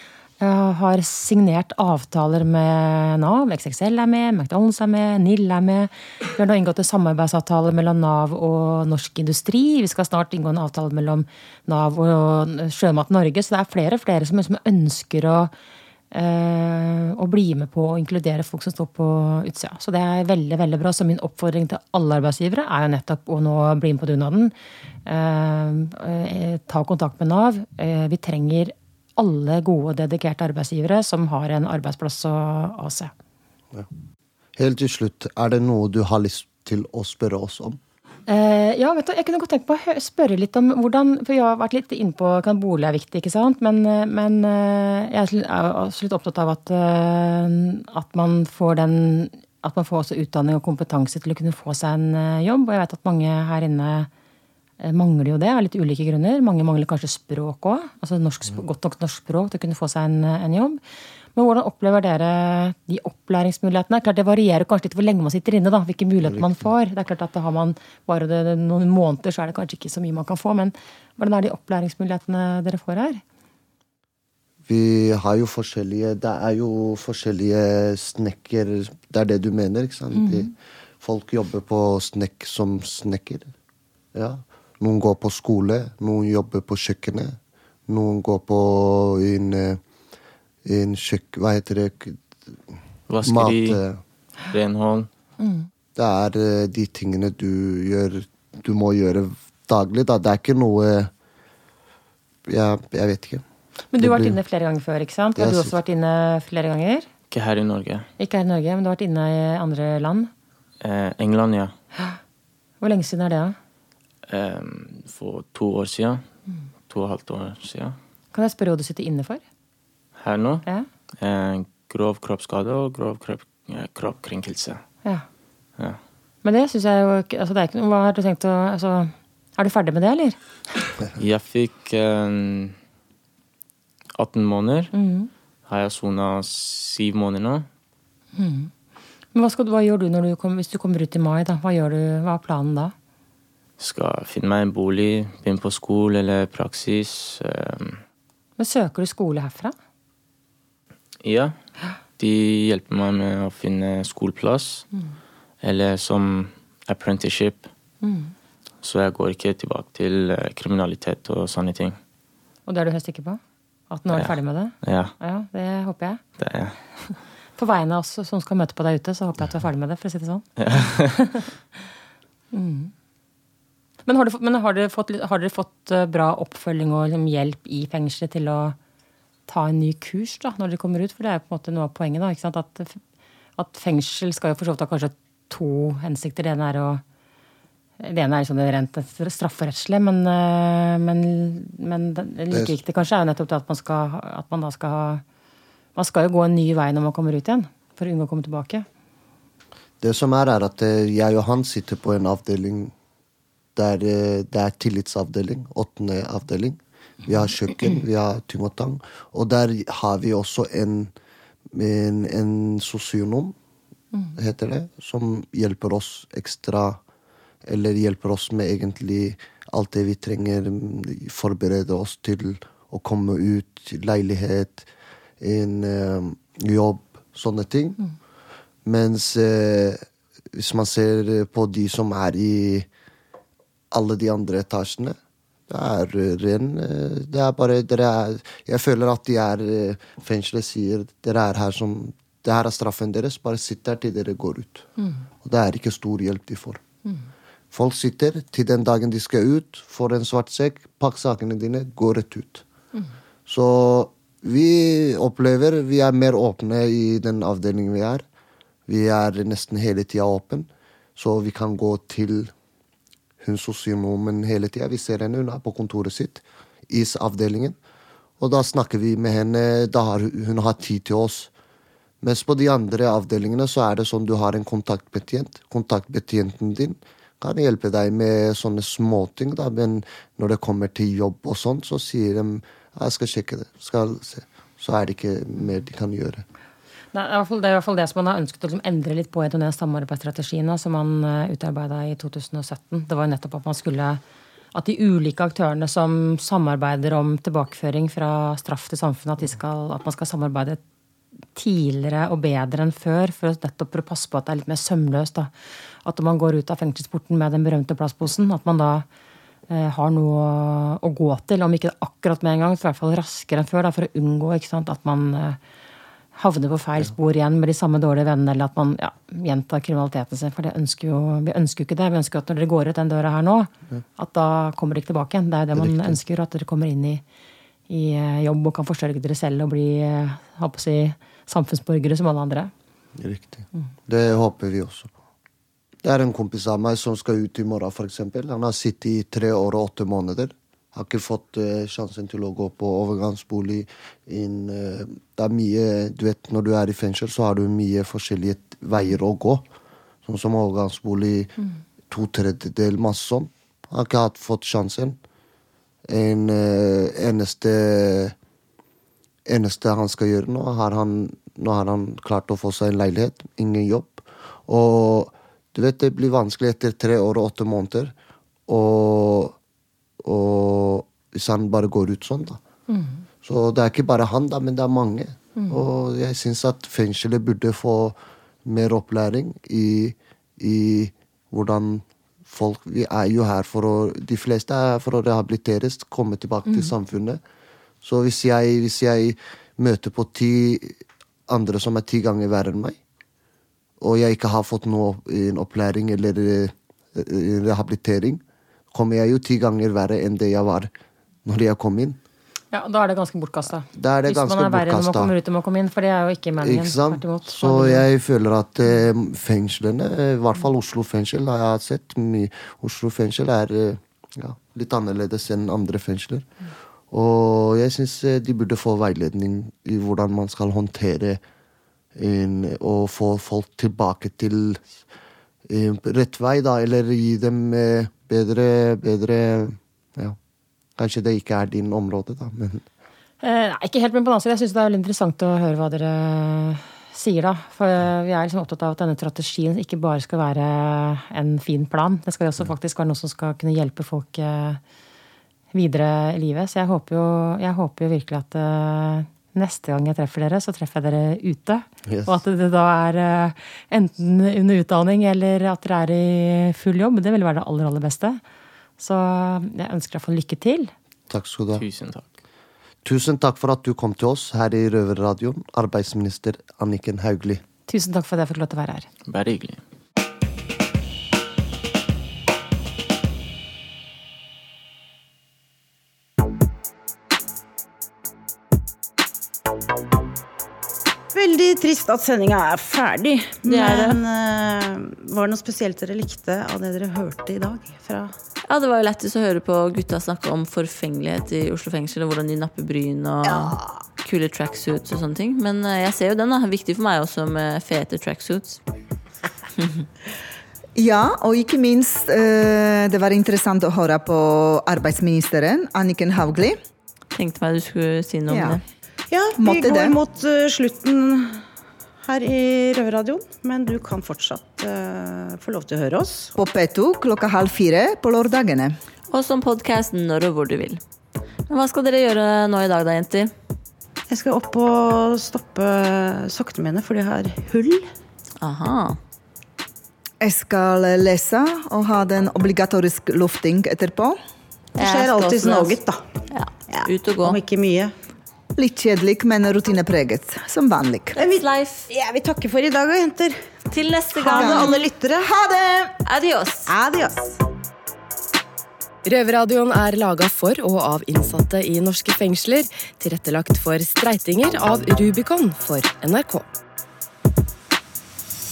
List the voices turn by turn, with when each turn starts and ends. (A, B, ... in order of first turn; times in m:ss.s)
0:00.4-0:15.5 A
0:16.1-0:24.5 A
0:25.1-0:33.1 A
0:34.6-0:37.8 B
0:38.3-0:54.1 A
0:54.8-1:00.8 A
1:01.4-1:13.2 A
1:06.2-1:06.6 B
1:14.7-1:23.5 B
1:20.2-1:20.5 A
1:24.1-1:27.4 B
1:27.9-1:29.8 B
1:30.6-1:34.0 B
1:33.1-1:33.8 C
1:34.5-1:35.1 C
1:35.4-1:35.7 A
1:36.0-1:41.1 B
1:42.5-1:43.4 B
1:43.9-1:47.1 A
1:44.0-1:44.4 B
1:45.4-1:45.8 B
1:47.3-1:48.1 C
1:48.2-1:50.3 A
1:50.8-1:51.7 C
1:52.8-1:53.6 A
1:54.3-1:56.3 C
1:56.9-1:58.0 C
1:58.3-1:59.4 A
2:00.2-2:00.6 C
2:01.2-2:04.8 C
2:06.4-2:10.4 A
2:11.2-2:12.8 C
2:14.2-2:14.9 C
2:14.9-2:15.3 A
2:15.7-2:17.7 C
2:18.4-2:18.7 A
2:19.3-2:22.9 A
2:23.8-2:28.0 C
2:28.6-2:29.7 A
2:31.2-2:31.6 C
2:32.2-2:34.9 C
2:35.6-2:37.7 C
2:38.0-2:38.3 A
2:38.8-2:42.0 C
2:42.7-2:46.2 A
2:44.1-2:45.1 C
2:46.4-2:46.8 C
2:47.1-2:51.5 A
2:50.6-2:51.2 C
2:52.5-2:52.9 A
2:54.1-2:58.8 A
2:59.5-3:03.0 A
3:03.6-3:07.0 A
3:08.0-3:15.2 A
3:12.5-3:12.8 B
3:16.0-3:18.8 A
3:20.0-3:22.9 B
3:23.8-3:31.1 B
3:31.7-3:33.6 B
3:34.4-3:37.0 B
3:37.6-3:44.9 B
3:45.4-3:48.0 B
3:48.8-3:50.0 B
3:50.5-3:52.9 B
3:53.9-3:55.2 B
3:55.7-4:04.9 B
4:05.4-4:06.8 B
4:07.7-4:12.6 B
4:13.5-4:18.2 B
4:18.9-4:22.5 B
4:23.4-4:27.8 B
4:28.4-4:31.5 B
4:32.2-4:46.5 B
4:47.1-4:54.2 A
4:54.7-5:00.8 A
5:01.6-5:05.5 A
5:06.0-5:09.1 A
5:09.7-5:15.6 A
5:16.4-5:27.2 A
5:25.7-5:26.2 B
5:27.9-5:32.7 A
5:33.2-5:35.1 B
5:36.0-5:49.7 B
5:50.2-5:51.5 B
5:52.1-5:55.2 B
5:56.1-5:58.4 B
5:59.5-6:08.1 B
6:08.7-6:09.6 B
6:10.2-6:12.6 B
6:12.9-6:13.2 A
6:13.4-6:27.4 B
6:15.6-6:15.8 A
6:26.7-6:26.9 A
6:28.0-6:33.0 B
6:34.0-6:40.9 B
6:41.4-6:42.2 B
6:42.7-6:48.1 A
6:43.9-6:45.3 B
6:46.6-6:56.5 B
6:57.1-7:01.4 B
7:02.2-7:04.9 B
7:05.7-7:10.4 B
7:11.0-7:12.8 B
7:13.4-7:24.8 A
7:25.7-7:38.4 A
7:32.1-7:32.3 B
7:39.0-7:40.9 A
7:41.3-7:41.8 B
7:41.7-7:42.4 C
7:43.0-7:47.6 B
7:47.9-7:49.1 A
7:49.3-7:49.8 C
8:01.3-8:08.3 D
8:03.6-8:04.2 E
8:08.7-8:18.8 E
8:21.0-8:26.8 F
8:27.3-8:28.8 E
8:28.5-8:28.8 F
8:29.3-8:31.6 D
8:29.6-8:30.2 F
8:32.2-8:36.5 D
8:36.6-8:39.0 F
8:39.3-8:41.0 E
8:41.7-8:43.5 E
8:44.3-8:48.1 D
8:48.6-8:49.2 E
8:50.4-8:54.4 F
8:55.0-8:56.0 E
8:55.0-8:56.2 D
8:56.5-8:57.6 E
8:56.9-8:58.1 D
8:58.8-9:01.4 F
9:01.4-9:02.1 E
9:01.4-9:03.6 D
9:03.9-9:05.2 E
9:04.4-9:05.4 D
9:06.2-9:06.9 E
9:06.9-9:07.6 D
9:09.2-9:16.6 G